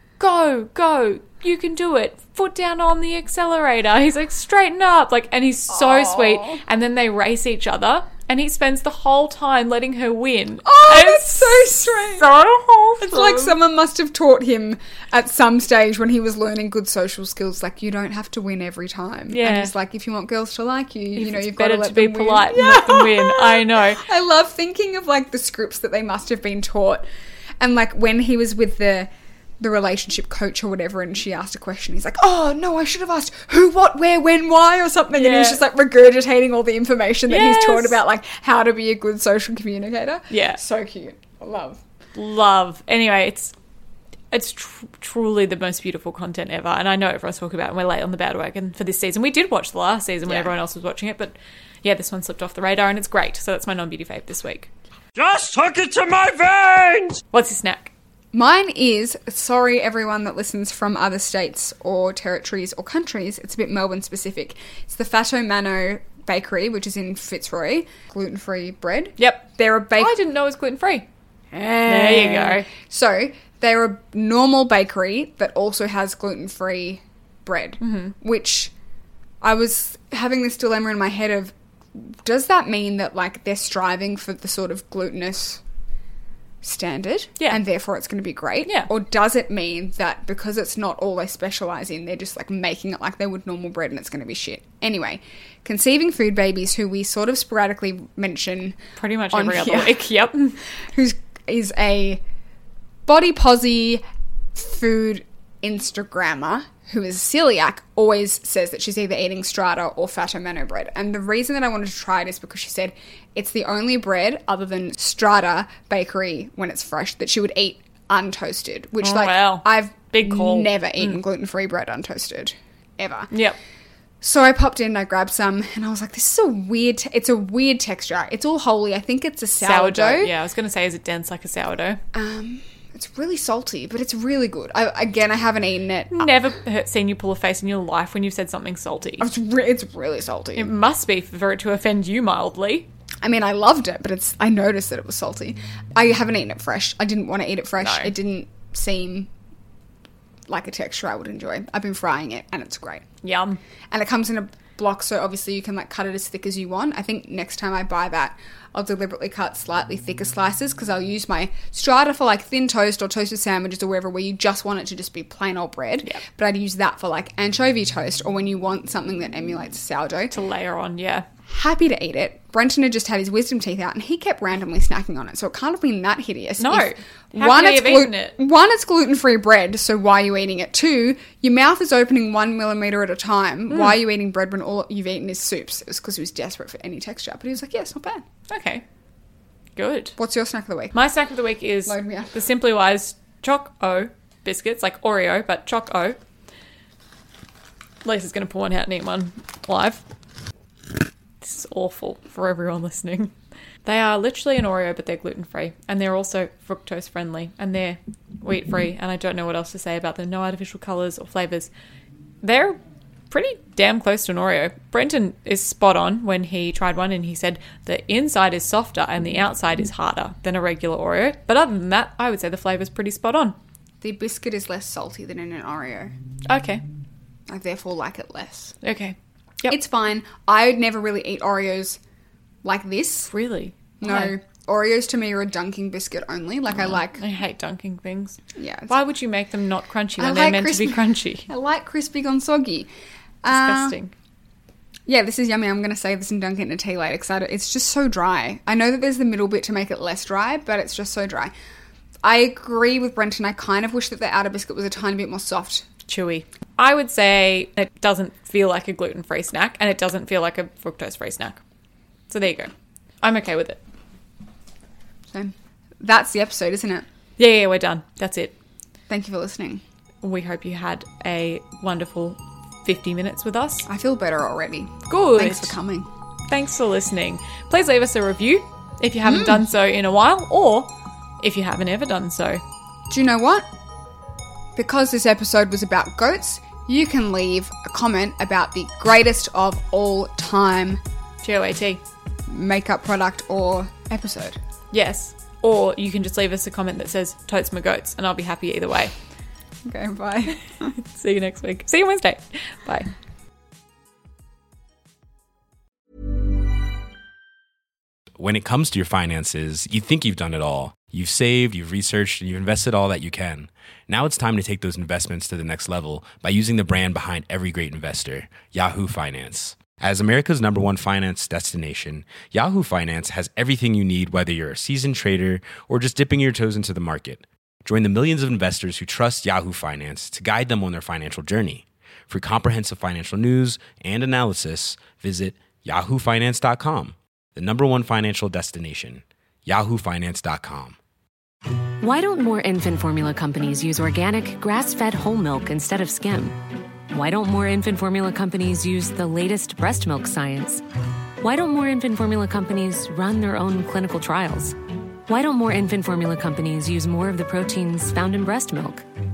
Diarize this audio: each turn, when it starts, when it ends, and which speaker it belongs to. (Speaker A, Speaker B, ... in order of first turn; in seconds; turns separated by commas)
Speaker A: 0.2-13.6, Speaker B: 5.7-6.6, Speaker B: 10.6-12.3, Speaker B: 13.0-27.0, Speaker A: 19.3-19.7, Speaker A: 21.1-24.0, Speaker B: 27.6-41.8, Speaker A: 35.1-35.6, Speaker A: 37.3-38.0, Speaker A: 40.3-40.6, Speaker A: 42.1-43.5, Speaker A: 44.3-54.7, Speaker B: 50.2-50.5, Speaker C: 55.1-57.2, Speaker A: 57.3-57.9, Speaker B: 58.3-70.1, Speaker A: 69.2-71.1, Speaker B: 71.5-78.7, Speaker A: 71.8-72.7, Speaker A: 77.8-78.1, Speaker B: 79.4-85.6, Speaker B: 86.6-98.8, Speaker A: 88.7-88.9, Speaker A: 99.0-100.6, Speaker B: 99.3-100.0, Speaker B: 100.9-102.2, Speaker B: 103.0-104.0, Speaker B: 104.5-123.4, Speaker A: 119.0-121.1, Speaker A: 123.3-123.6, Speaker B: 124.2-130.3, Speaker A: 129.6-132.0, Speaker B: 132.1-136.4, Speaker A: 136.1-139.3, Speaker B: 139.2-140.7, Speaker A: 140.5-142.9, Speaker B: 143.2-149.3, Speaker A: 147.8-148.1, Speaker B: 150.5-153.0, Speaker A: 153.2-153.6, Speaker B: 153.9-170.4, Speaker A: 170.3-171.3, Speaker B: 171.5-188.2, Speaker A: 176.6-178.4, Speaker A: 188.5-188.8, Speaker A: 189.7-190.2, Speaker B: 190.2-190.9, Speaker A: 190.9-196.2, Speaker B: 191.8-192.3, Speaker A: 198.0-200.0, Speaker A: 201.4-211.7, Speaker A: 212.4-212.8, Speaker A: 213.3-223.6, Speaker B: 224.0-226.1, Speaker A: 226.4-226.8, Speaker B: 227.5-228.8, Speaker A: 228.8-229.8, Speaker B: 229.7-232.0, Speaker B: 232.6-233.3, Speaker A: 233.3-234.3, Speaker B: 234.0-237.2, Speaker A: 236.8-241.5, Speaker B: 238.6-238.9, Speaker B: 240.2-242.9, Speaker B: 243.4-244.0, Speaker A: 243.4-244.1, Speaker B: 245.1-251.5, Speaker B: 252.2-255.8, Speaker A: 256.1-261.6, Speaker A: 262.3-263.8, Speaker B: 265.3-267.1, Speaker A: 267.4-268.6, Speaker B: 269.1-269.8, Speaker A: 270.2-273.9, Speaker B: 273.9-276.1, Speaker A: 275.1-275.8, Speaker A: 276.5-282.6, Speaker B: 279.2-279.6, Speaker B: 283.1-283.6, Speaker B: 284.8-291.0, Speaker A: 291.4-292.0, Speaker B: 292.5-294.6, Speaker A: 294.9-299.1, Speaker B: 299.9-300.9, Speaker A: 300.9-303.1, Speaker D: 308.4-341.0, Speaker E: 342.0-350.8, Speaker E: 351.4-354.8, Speaker E: 355.3-359.0